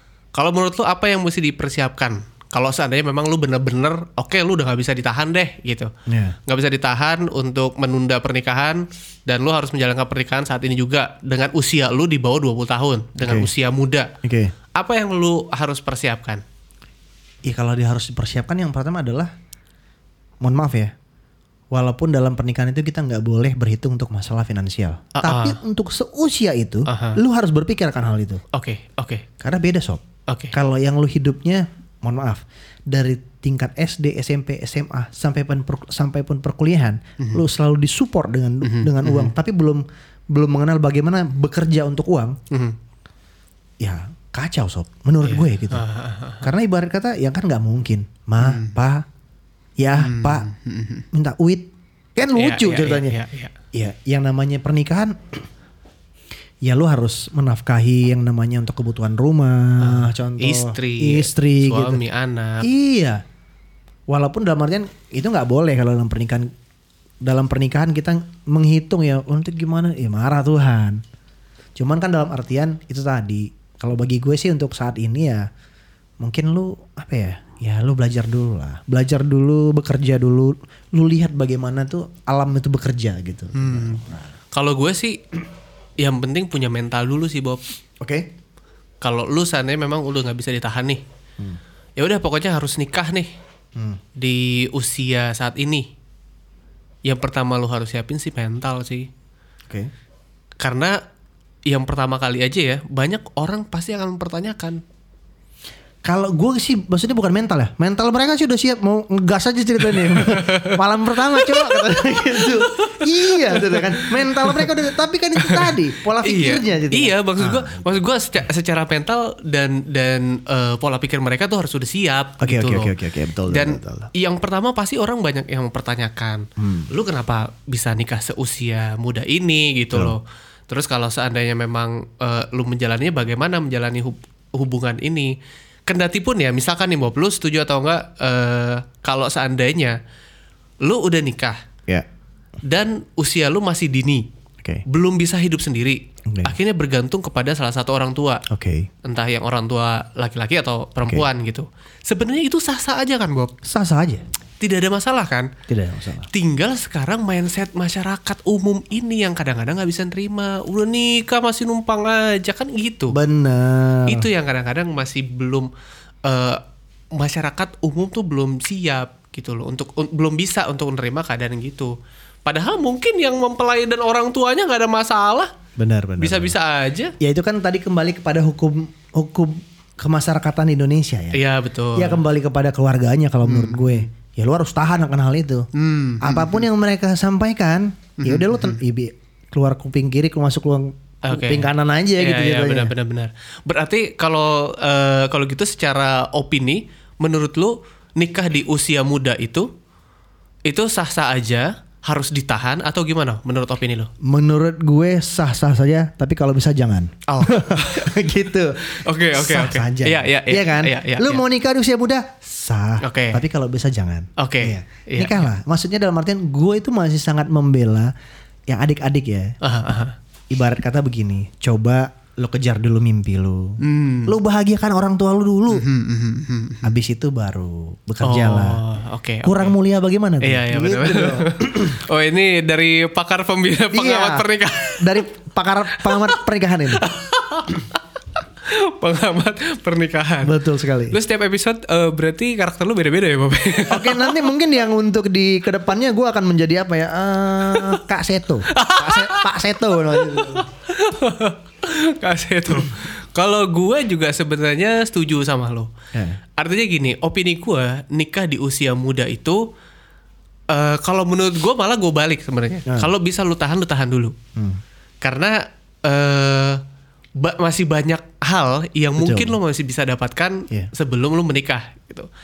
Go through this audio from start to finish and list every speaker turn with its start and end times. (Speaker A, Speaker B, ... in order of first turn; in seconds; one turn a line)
Speaker A: 0.3-5.9
Speaker B: 6.1-6.4
Speaker A: 6.5-14.1
Speaker B: 13.2-13.5
Speaker B: 14.2-14.5
Speaker A: 14.8-16.4
Speaker B: 17.4-19.3
Speaker B: 20.4-20.9
Speaker B: 21.7-28.4
Speaker A: 25.2-25.6
Speaker A: 26.9-27.2
Speaker A: 28.5-29.3
Speaker B: 29.4-42.4
Speaker A: 38.6-39.3
Speaker A: 42.5-42.8
Speaker B: 43.8-45.9
Speaker A: 45.2-46.5
Speaker B: 46.4-49.0
Speaker A: 48.4-48.7
Speaker B: 49.8-50.5
Speaker A: 50.0-51.1
Speaker B: 51.1-53.1
Speaker A: 52.4-53.5
Speaker B: 53.7-55.5
Speaker B: 56.6-62.0
Speaker A: 59.8-62.7
Speaker B: 62.6-63.2
Speaker B: 64.1-66.5
Speaker B: 67.2-71.0
Speaker B: 71.8-75.5
Speaker B: 76.2-84.3
Speaker A: 83.5-85.2
Speaker A: 86.0-87.6
Speaker B: 88.0-88.3
Speaker A: 89.0-91.0
Speaker A: 92.0-93.3
Speaker A: 94.2-95.9
Speaker A: 97.0-99.1
Speaker A: 100.6-101.0
Speaker A: 101.7-104.8
Speaker B: 106.0-118.0
Speaker A: 109.8-114.8
Speaker A: 115.4-123.0
Speaker B: 122.4-124.1
Speaker A: 123.5-135.3
Speaker B: 126.6-126.9
Speaker A: 135.9-140.0
Speaker A: 140.8-141.6
Speaker A: 142.7-144.3
Speaker A: 144.9-148.4
Speaker B: 148.5-148.9
Speaker A: 149.0-153.5
Speaker B: 153.7-154.2
Speaker A: 154.6-155.5
Speaker B: 155.7-156.3
Speaker A: 156.3-163.2
Speaker B: 163.1-164.3
Speaker A: 164.1-165.7
Speaker A: 166.3-166.6
Speaker A: 167.2-171.9
Speaker A: 172.5-175.5
Speaker B: 175.8-176.5
Speaker A: 176.2-177.1
Speaker B: 177.2-181.4
Speaker A: 181.3-182.2
Speaker B: 182.0-185.7
Speaker A: 183.5-184.1
Speaker A: 185.7-186.7
Speaker B: 186.2-192.9
Speaker A: 188.2-188.8
Speaker A: 191.3-199.7
Speaker A: 200.7-204.1
Speaker B: 204.2-218.1
Speaker A: 207.3-208.2
Speaker A: 209.1-211.4
Speaker A: 213.0-213.4
Speaker A: 214.4-215.5
Speaker B: 218.7-219.5
Speaker A: 219.6-220.2
Speaker B: 220.5-225.8
Speaker A: 223.8-224.3
Speaker A: 225.7-227.0
Speaker B: 226.8-228.8
Speaker A: 228.2-229.8
Speaker B: 229.4-232.0
Speaker A: 230.4-235.2
Speaker B: 233.9-234.5
Speaker B: 235.0-237.1
Speaker A: 236.0-236.4
Speaker A: 237.0-238.0
Speaker A: 238.6-240.6
Speaker B: 240.4-241.2
Speaker A: 241.1-244.4
Speaker B: 243.9-250.7
Speaker A: 247.7-248.0
Speaker A: 248.7-255.9
Speaker B: 256.1-256.4
Speaker A: 256.6-259.6
Speaker A: 260.7-264.4
Speaker A: 265.2-266.8
Speaker A: 267.4-272.3
Speaker B: 269.2-269.6